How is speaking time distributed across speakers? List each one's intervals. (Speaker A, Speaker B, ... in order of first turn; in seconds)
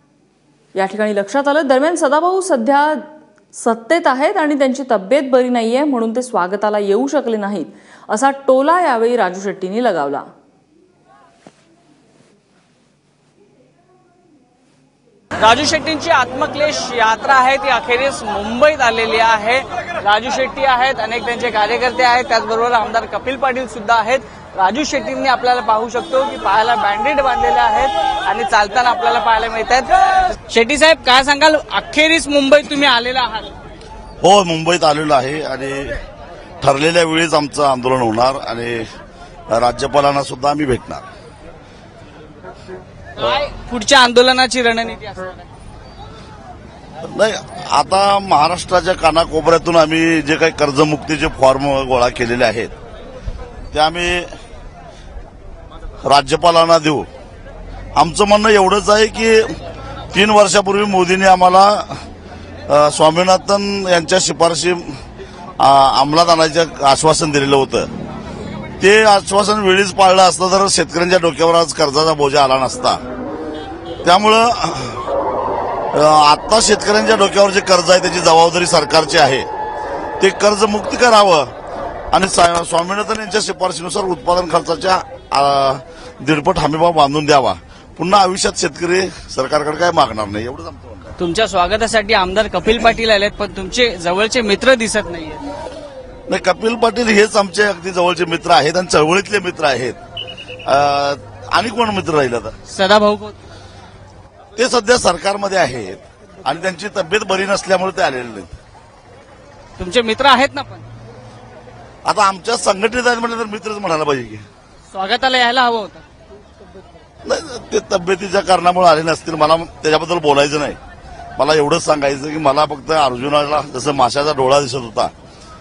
Speaker A: 0.8-10.3
Speaker B: 15.4-33.5, 43.2-45.5, 91.2-95.4, 102.7-103.4, 109.8-110.8, 114.9-116.0
Speaker C: 34.2-36.0, 36.6-38.9, 39.5-41.0, 47.0-52.7, 53.7-54.3, 56.0-57.1, 58.0-59.6, 60.1-62.0, 62.7-65.0, 65.6-67.9, 68.8-73.0, 74.0-75.0, 75.9-79.5, 80.2-81.5, 82.1-91.1, 96.3-100.0, 100.7-102.6, 104.6-108.5, 112.0-114.5, 117.2-120.8, 121.4-125.1